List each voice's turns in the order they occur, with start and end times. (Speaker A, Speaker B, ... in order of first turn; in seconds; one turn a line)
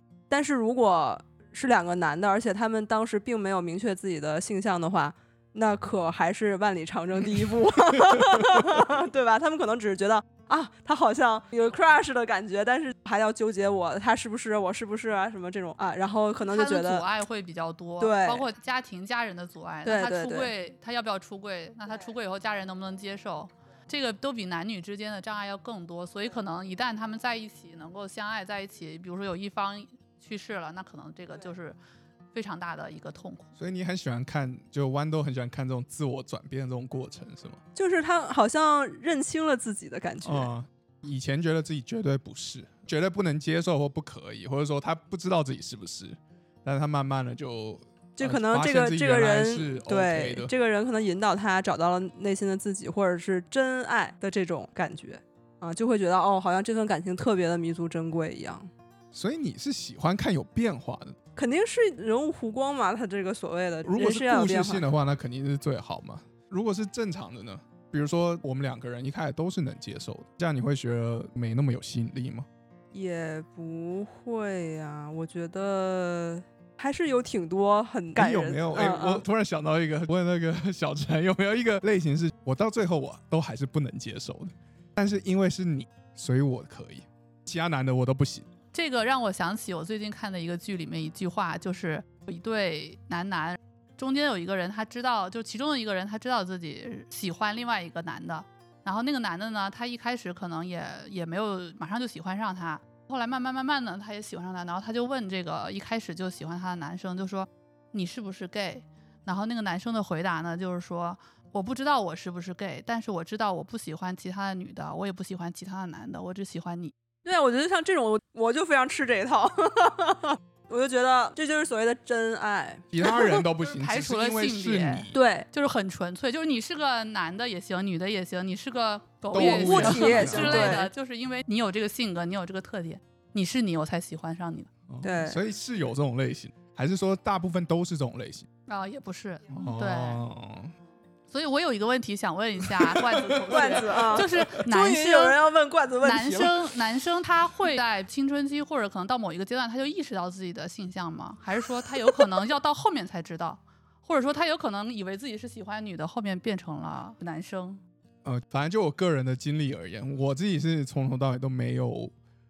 Speaker A: 0.3-17.1
Speaker B: 16.5-31.8
Speaker A: 18.0-18.5
Speaker A: 19.9-20.5
Speaker B: 32.3-33.5
Speaker C: 33.6-37.6
Speaker A: 37.8-40.5
Speaker C: 40.2-50.5
Speaker A: 48.2-58.7
Speaker C: 59.1-61.2
Speaker A: 61.4-64.9
Speaker C: 63.9-72.5
Speaker A: 72.9-79.2
Speaker C: 78.2-88.5
Speaker B: 88.7-116.9
Speaker A: 117.2-123.5
Speaker C: 122.9-125.2
Speaker B: 123.6-134.7
Speaker A: 125.1-125.5
Speaker C: 129.3-130.8
Speaker A: 129.3-130.9
Speaker C: 134.9-138.5
Speaker A: 135.0-135.4
Speaker B: 138.7-140.2
Speaker C: 139.5-140.7
Speaker B: 141.3-145.4
Speaker C: 142.6-144.4
Speaker A: 143.5-146.7
Speaker B: 146.0-157.8
Speaker C: 158.2-162.1